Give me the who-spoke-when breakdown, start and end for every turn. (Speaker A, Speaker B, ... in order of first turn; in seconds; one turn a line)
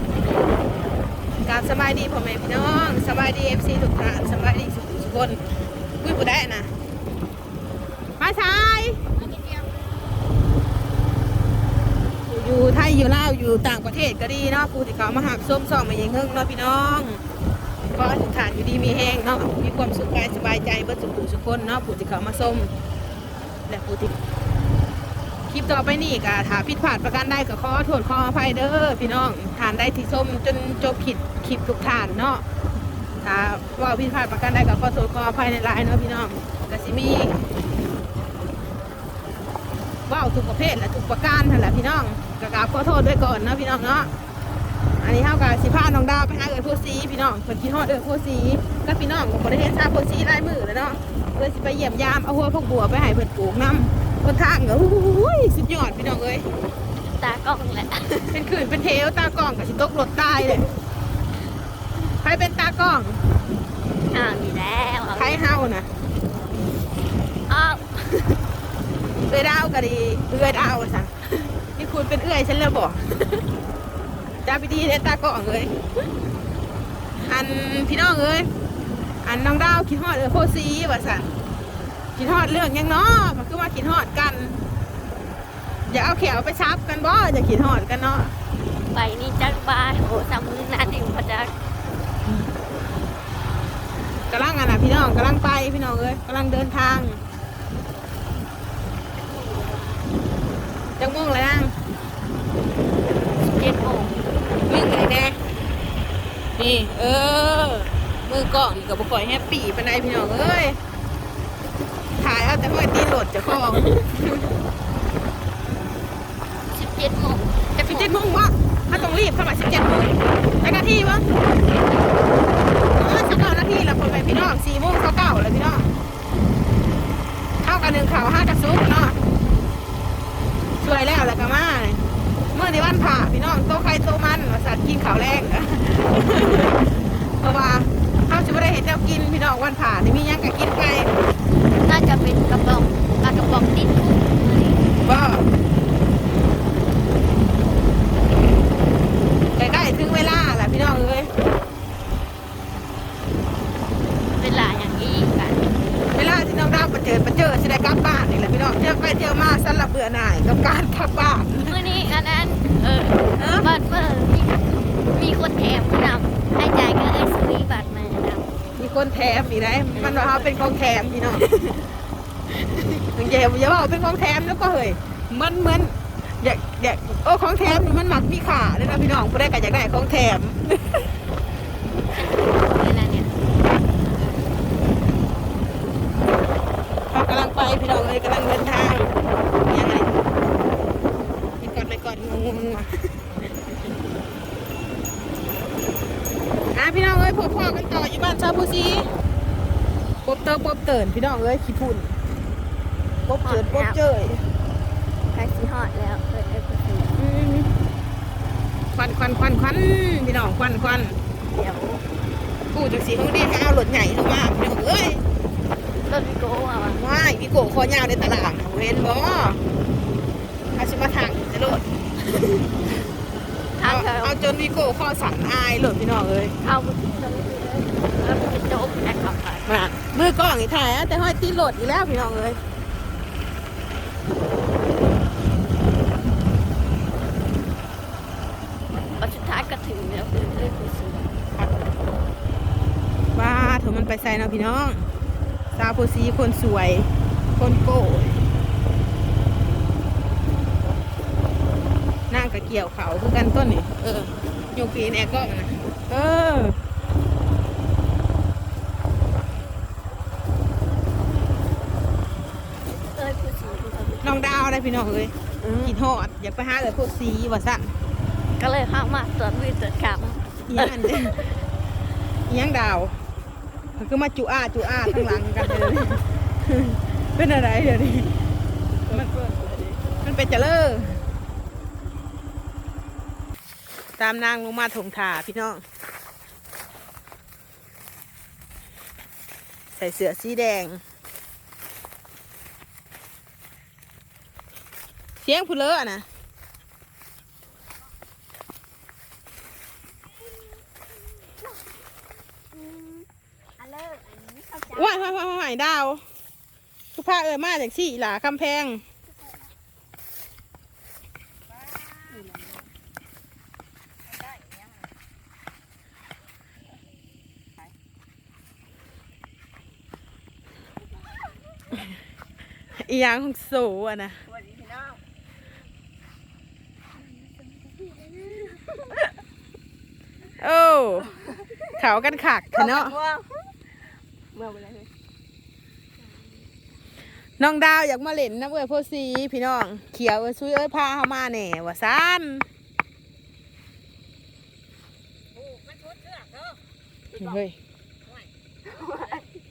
Speaker A: 1.4-5.4
Speaker A: 6.0-6.7
Speaker A: 8.2-9.0
Speaker A: 12.3-17.2
Speaker A: 17.9-22.7
Speaker A: 23.7-24.2
Speaker A: 25.5-32.4
Speaker A: 33.2-37.4
Speaker A: 40.1-44.1
Speaker A: 45.0-56.5
Speaker B: 57.1-58.3
Speaker A: 58.3-60.6
Speaker A: 62.2-63.2
Speaker B: 64.1-65.4
Speaker A: 65.2-65.9
Speaker B: 67.5-68.4
Speaker A: 69.3-73.0
Speaker A: 74.4-75.8
Speaker A: 77.2-78.5
Speaker A: 79.2-81.3
Speaker A: 82.2-84.6
Speaker A: 85.9-88.3
Speaker B: 88.9-91.5
Speaker A: 94.3-97.2
Speaker B: 99.5-99.9
Speaker A: 101.0-101.7
Speaker B: 103.4-104.2
Speaker A: 104.7-105.4
Speaker A: 106.6-110.8
Speaker A: 112.2-114.4
Speaker B: 113.8-114.0
Speaker B: 116.7-118.1
Speaker A: 117.8-121.2
Speaker A: 122.9-125.9
Speaker A: 127.6-129.2
Speaker A: 130.8-132.0
Speaker A: 132.5-141.1
Speaker B: 141.8-144.9
Speaker A: 145.0-145.5
Speaker A: 149.6-151.3
Speaker B: 154.3-155.7
Speaker A: 156.1-161.8
Speaker B: 161.7-168.5
Speaker A: 163.4-163.7
Speaker A: 168.8-171.5
Speaker B: 169.9-170.6
Speaker A: 173.0-181.0
Speaker B: 182.1-183.3
Speaker A: 187.1-189.1
Speaker A: 189.7-190.1
Speaker A: 191.6-193.1
Speaker A: 196.7-199.1
Speaker A: 200.2-202.2
Speaker A: 203.3-204.4
Speaker B: 203.4-204.0
Speaker B: 205.3-207.2
Speaker A: 207.2-207.7
Speaker A: 208.9-211.2
Speaker B: 211.5-212.0
Speaker A: 212.7-215.2
Speaker B: 216.1-217.0
Speaker A: 216.9-219.6
Speaker A: 220.8-221.8
Speaker B: 223.8-224.3
Speaker A: 223.8-226.6
Speaker B: 226.6-229.7
Speaker A: 229.7-232.6
Speaker B: 239.2-241.4
Speaker A: 243.3-245.0
Speaker A: 245.7-248.4
Speaker A: 252.3-256.8
Speaker B: 262.9-264.4
Speaker A: 264.2-267.9
Speaker B: 265.6-265.9
Speaker B: 268.6-271.2
Speaker A: 270.7-271.4
Speaker A: 272.5-273.1
Speaker A: 274.0-278.3
Speaker C: 279.1-280.0
Speaker A: 280.2-281.2
Speaker A: 284.2-285.8
Speaker A: 289.9-291.0
Speaker A: 295.4-296.3
Speaker B: 302.7-303.3
Speaker B: 303.8-305.3
Speaker A: 304.9-306.2
Speaker A: 307.1-309.0
Speaker C: 311.8-312.8
Speaker B: 312.4-312.7
Speaker C: 314.4-314.9
Speaker A: 323.0-324.4
Speaker C: 324.5-325.2
Speaker A: 330.6-331.3
Speaker A: 332.0-333.2
Speaker C: 332.7-333.4
Speaker C: 334.6-335.1
Speaker A: 337.6-342.7
Speaker C: 345.6-346.8
Speaker A: 347.4-347.8
Speaker C: 348.3-349.4
Speaker B: 349.0-349.3